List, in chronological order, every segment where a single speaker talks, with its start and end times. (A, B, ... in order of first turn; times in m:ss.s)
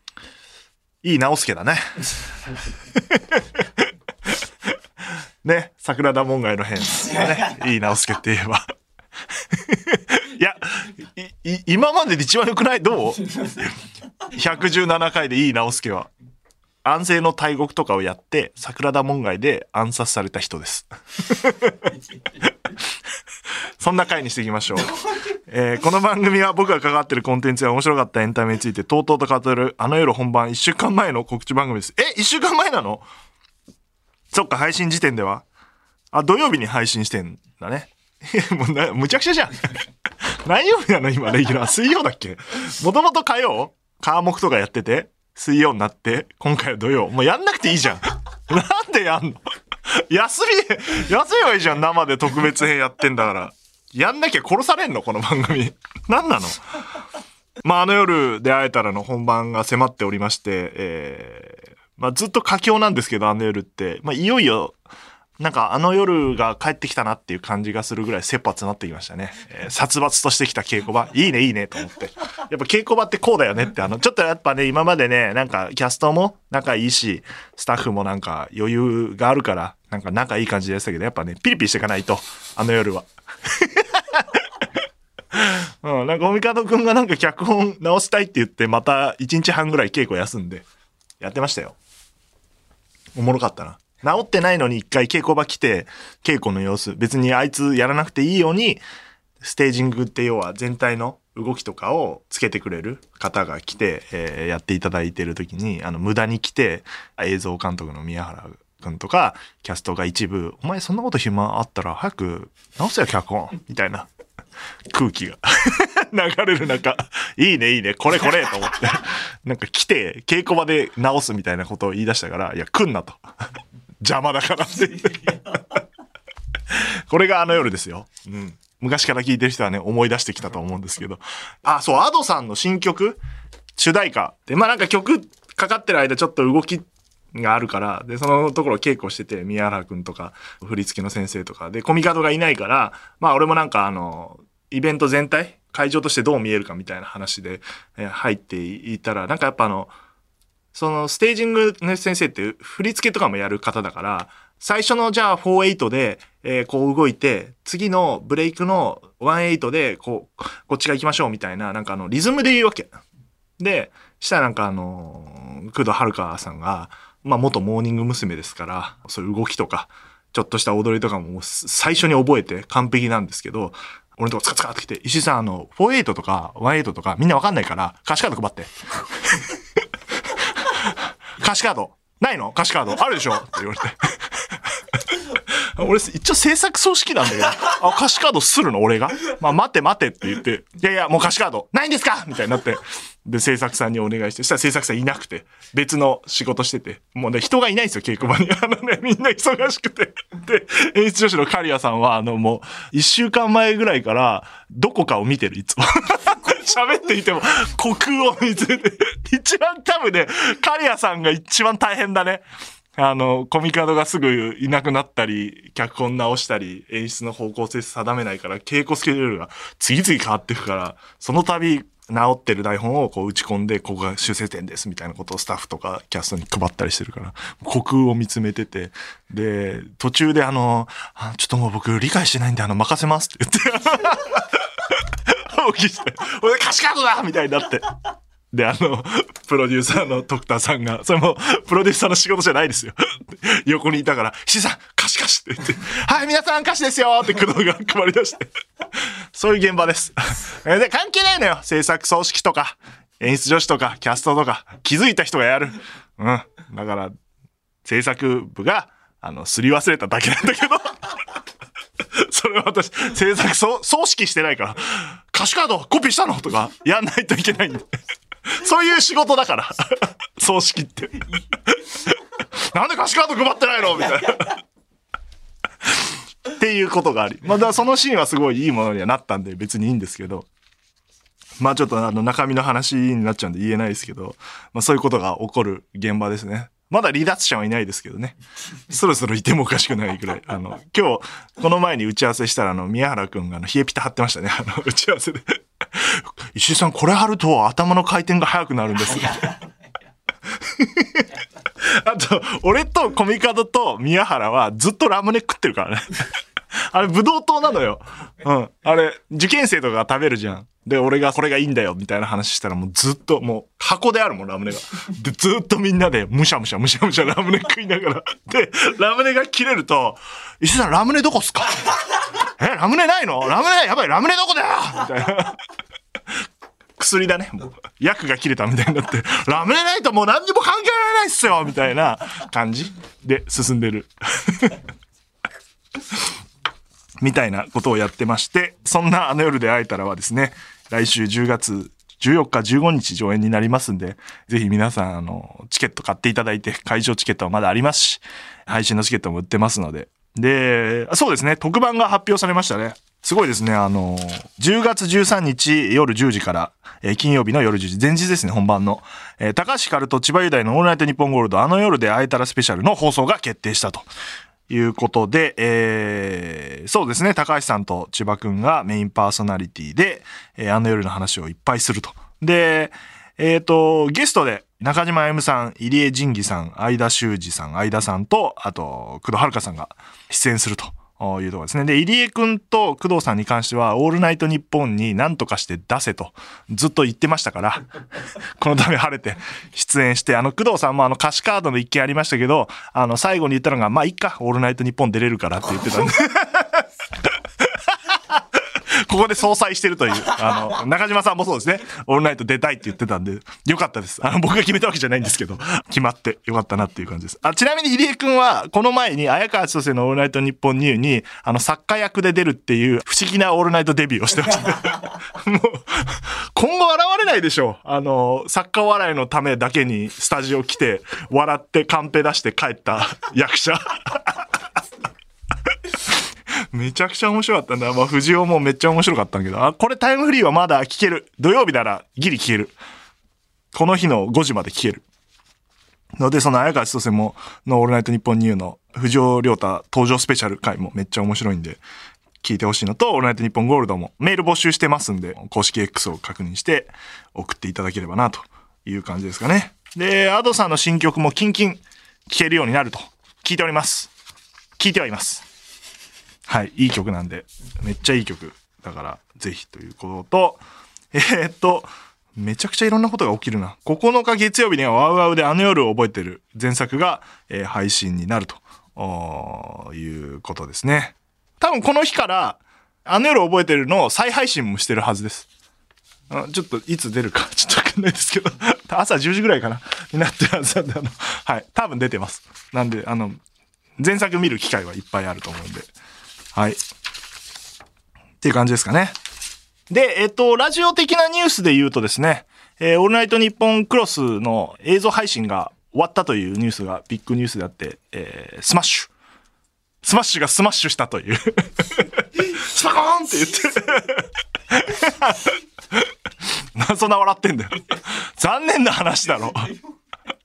0:01.0-0:02.0 A
0:03.0-0:04.3 A
0:05.4-0:08.7 A
0:09.5-0:13.5 A
0:14.3-0:16.1 A
0:16.8-0:21.8 A
0:23.8-0:24.9 A
0:25.5-0:33.0 A
0:34.3-0:35.4 A
0:36.1-0:39.8 A
0:40.4-0:56.6 A
0:57.6-1:04.8 A
1:05.4-1:24.3 A
1:25.3-1:30.6 A
1:31.2-1:31.8 A
1:33.2-1:38.8 A
1:39.4-1:54.1 A
1:54.9-2:03.2 A
2:04.0-2:05.6 A
2:06.7-2:13.2 A
2:13.8-2:29.9 A
2:30.7-2:43.0 A
2:43.6-2:58.7 A
2:59.3-2:59.6 A
3:00.4-3:04.2 A
3:05.8-3:57.9 A
3:58.5-4:08.5 A
4:09.3-4:17.1 A
4:17.8-4:21.0 A
4:22.1-4:27.9 A
4:28.6-4:32.2 A
4:32.7-4:34.6 A
4:35.9-4:40.5 A
4:41.6-4:48.4 A
4:48.9-4:59.6 A
5:00.7-5:01.3 A
5:01.8-5:06.2 A
5:06.8-5:21.8 A
5:22.6-5:25.6 A
5:27.0-5:34.8 A
5:37.2-6:04.1 A
6:04.7-6:27.8 A
6:28.6-6:36.8 A
6:38.1-7:04.4 A
7:06.7-7:12.8 A
7:13.7-7:15.0 A
7:16.2-7:21.8 A
7:22.4-7:34.1 A
7:34.8-7:35.4 A
7:36.5-7:40.6 A
7:41.1-7:55.5 A
7:56.3-8:03.4 A
8:04.0-8:05.9 A
8:06.5-8:06.8 A
8:08.4-8:09.2 A
8:09.9-8:19.1 A
8:20.0-8:26.1 A
8:26.8-8:29.8 A